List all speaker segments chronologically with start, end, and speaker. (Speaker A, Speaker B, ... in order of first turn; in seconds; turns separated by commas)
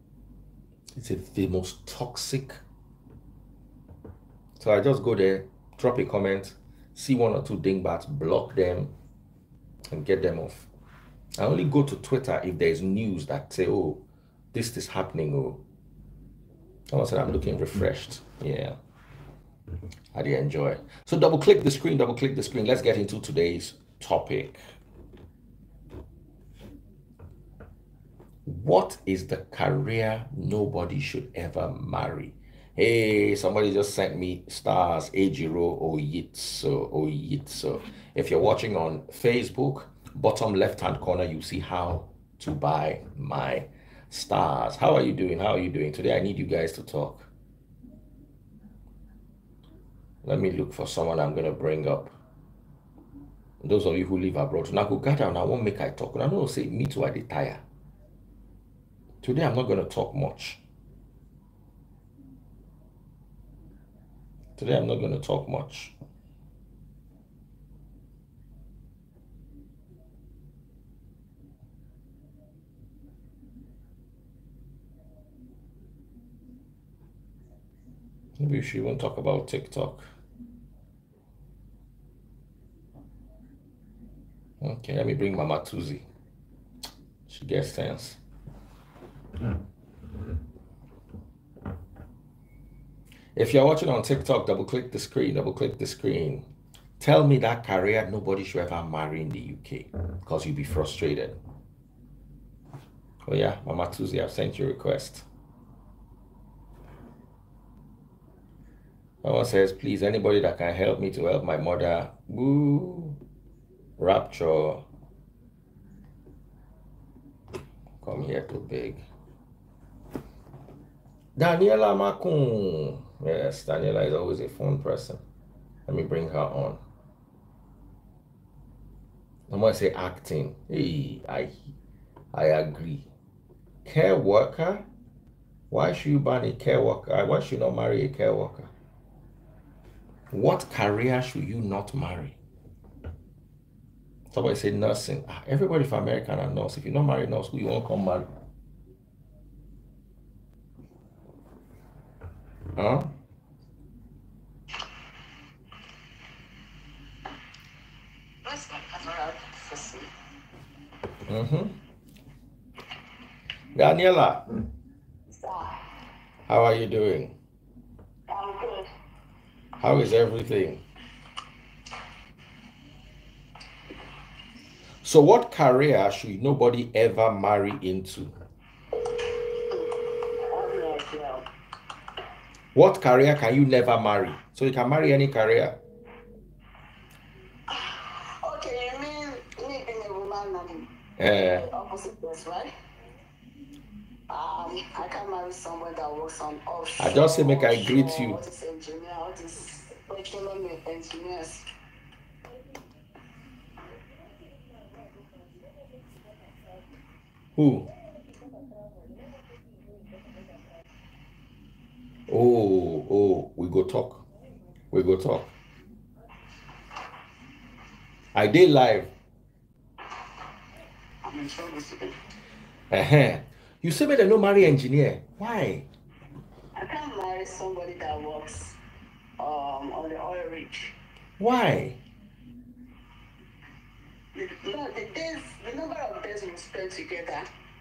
Speaker A: 0.9-2.6, Speaker A: 4.6-8.9, Speaker A: 9.9-10.7, Speaker A: 11.3-15.6, Speaker A: 16.9-18.8, Speaker A: 20.1-24.6, Speaker A: 28.5-47.3, Speaker A: 50.2-52.1, Speaker A: 53.6-57.6, Speaker A: 59.2-60.6, Speaker A: 64.6-65.9, Speaker A: 78.4-80.1, Speaker A: 84.6-86.0, Speaker A: 87.3-88.2, Speaker A: 93.3-96.5, Speaker A: 97.0-101.4, Speaker A: 103.2-105.3, Speaker A: 109.2-113.2, Speaker A: 114.0-114.8, Speaker A: 118.0-119.0, Speaker A: 121.4-125.2, Speaker A: 125.9-126.8, Speaker A: 129.5-131.5, Speaker A: 132.3-133.1, Speaker A: 133.8-134.9, Speaker A: 135.7-138.7, Speaker A: 140.3-142.4, Speaker A: 144.3-148.3, Speaker A: 152.8-153.1, Speaker B: 158.4-160.1, Speaker A: 161.3-161.8, Speaker A: 163.7-164.4, Speaker B: 165.3-165.8, Speaker A: 166.5-167.4, Speaker B: 168.3-168.9, Speaker A: 169.8-170.8, Speaker A: 175.0-178.3, Speaker B: 179.7-181.4, Speaker A: 182.7-185.8, Speaker B: 187.7-192.7, Speaker A: 191.2-191.7, Speaker B: 194.3-201.7, Speaker A: 197.0-198.4, Speaker A: 207.6-207.9, Speaker A: 212.3-214.2, Speaker A: 214.9-215.5, Speaker A: 218.3-219.1, Speaker B: 221.2-222.2, Speaker A: 222.9-225.9, Speaker B: 226.8-228.8, Speaker B: 229.4-230.9, Speaker A: 231.4-232.0, Speaker B: 234.3-237.5